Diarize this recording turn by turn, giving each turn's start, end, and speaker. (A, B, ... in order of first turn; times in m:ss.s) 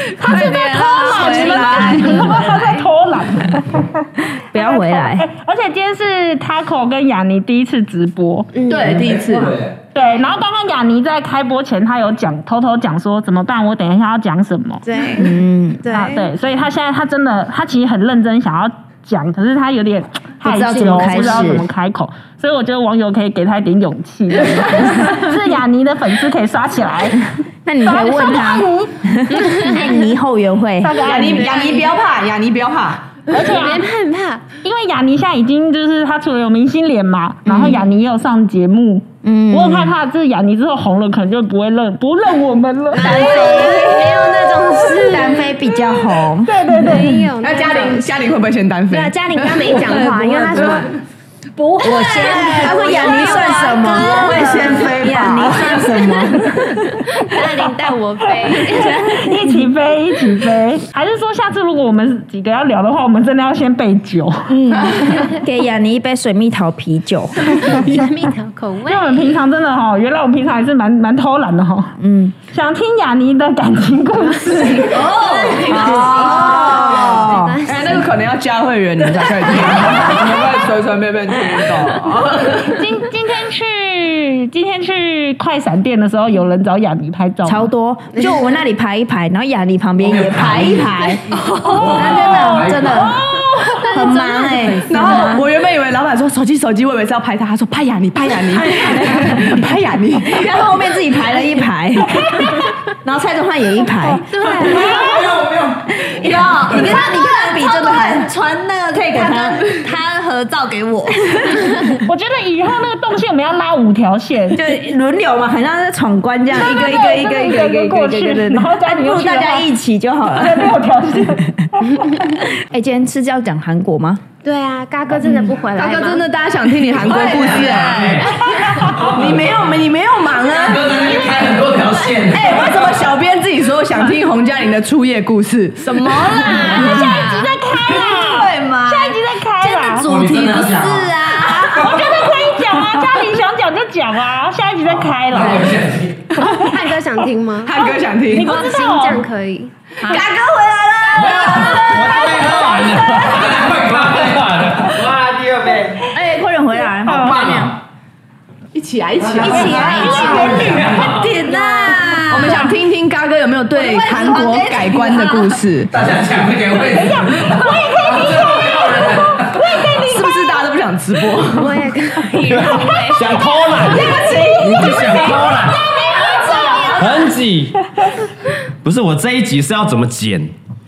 0:00.2-0:08.5 A
0:00.2-0:02.6 B
0:01.0-0:02.6 C
0:04.4-0:05.3 C
0:08.5-0:09.1 D
0:08.7-0:09.6 E
0:08.9-0:09.8 F
0:09.9-0:14.8 A
0:14.8-0:16.3 D
0:15.2-0:15.9 C
0:15.9-0:27.3 A
0:20.4-0:21.7 C
0:27.6-0:31.1 C
0:27.8-0:28.9 A
0:29.4-0:30.0 D
0:30.8-0:31.6 A
0:31.0-0:33.2 E
0:31.4-0:31.9 D
0:33.3-0:34.4 D
0:33.3-0:33.9 A
0:34.6-0:43.9 A
0:37.5-0:37.8 C
0:39.2-0:40.0 C
0:42.9-0:45.6 D
0:43.0-0:46.9 C
0:46.5-0:47.2 A
0:46.8-0:48.1 D
0:47.4-0:50.8 E
0:48.9-0:50.9 D
0:49.9-0:50.8 B
0:51.6-0:54.1 B
0:51.8-0:57.0 C
0:51.9-0:55.1 D
0:52.6-0:53.1 E
0:54.0-0:55.7 E
0:57.2-0:59.2 D
0:58.5-1:05.0 A
0:58.8-0:59.6 C
1:04.7-1:07.8 C
1:07.6-1:09.4 D
1:07.6-1:08.0 A
1:08.8-1:12.0 A
1:12.0-1:12.4 C
1:12.5-1:15.0 A
1:14.4-1:15.1 D
1:14.8-1:22.8 E
1:14.9-1:16.4 B
1:15.6-1:17.6 C
1:15.7-1:18.1 D
1:19.7-1:20.0 C
1:22.6-1:27.7 A
1:27.4-1:31.2 C
1:30.0-1:33.2 F
1:31.3-1:32.1 B
1:31.7-1:34.6 A
1:31.8-1:33.2 C
1:33.8-1:35.5 C
1:34.0-1:34.7 B
1:34.9-1:40.5 E
1:38.7-1:39.5 C
1:40.2-1:44.9 C
1:42.0-1:42.8 A
1:44.1-1:45.4 A
1:44.3-1:45.3 D
1:45.0-1:46.0 F
1:46.0-1:48.3 C
1:46.0-1:51.7 B
1:48.9-1:49.7 C
1:51.9-1:54.8 A
1:54.6-2:00.8 C
1:56.6-1:59.7 A
2:00.3-2:02.0 A
2:02.4-2:04.2 C
2:04.4-2:06.3 D
2:05.2-2:10.8 E
2:07.1-2:08.2 B
2:07.2-2:09.8 F
2:08.2-2:08.8 D
2:10.5-2:13.1 F
2:12.3-2:17.0 E
2:16.0-2:19.2 B
2:16.7-2:20.1 A
2:16.8-2:17.5 D
2:20.0-2:22.0 B
2:20.0-2:22.0 F
2:21.7-2:25.8 A
2:25.3-2:26.3 F
2:26.3-2:29.7 D
2:26.4-2:26.8 A
2:27.6-2:28.6 E
2:27.8-2:29.2 A
2:30.0-2:30.3 B
2:30.1-2:32.0 E
2:31.2-2:32.7 B
2:31.2-2:36.1 G
2:32.3-2:33.2 A
2:33.1-2:34.9 F
2:36.1-2:37.8 C
2:37.0-2:37.4 A
2:37.3-2:37.6 F
2:38.7-2:40.8 E
2:39.4-2:40.7 C
2:39.4-2:41.2 F
2:39.4-2:40.9 A
2:40.1-2:41.2 G
2:40.9-2:42.8 B
2:41.4-2:42.0 D
2:42.3-2:45.9 E
2:43.7-2:45.6 B
2:45.9-2:49.8 F
2:46.9-2:50.6 A
2:50.0-2:51.9 E
2:51.5-2:54.3 D
2:52.4-2:55.9 G
2:52.5-2:53.2 A
2:53.8-2:57.3 A
2:54.0-2:55.1 E
2:56.3-2:57.1 D
2:57.0-2:57.8 G
2:58.8-3:00.5 G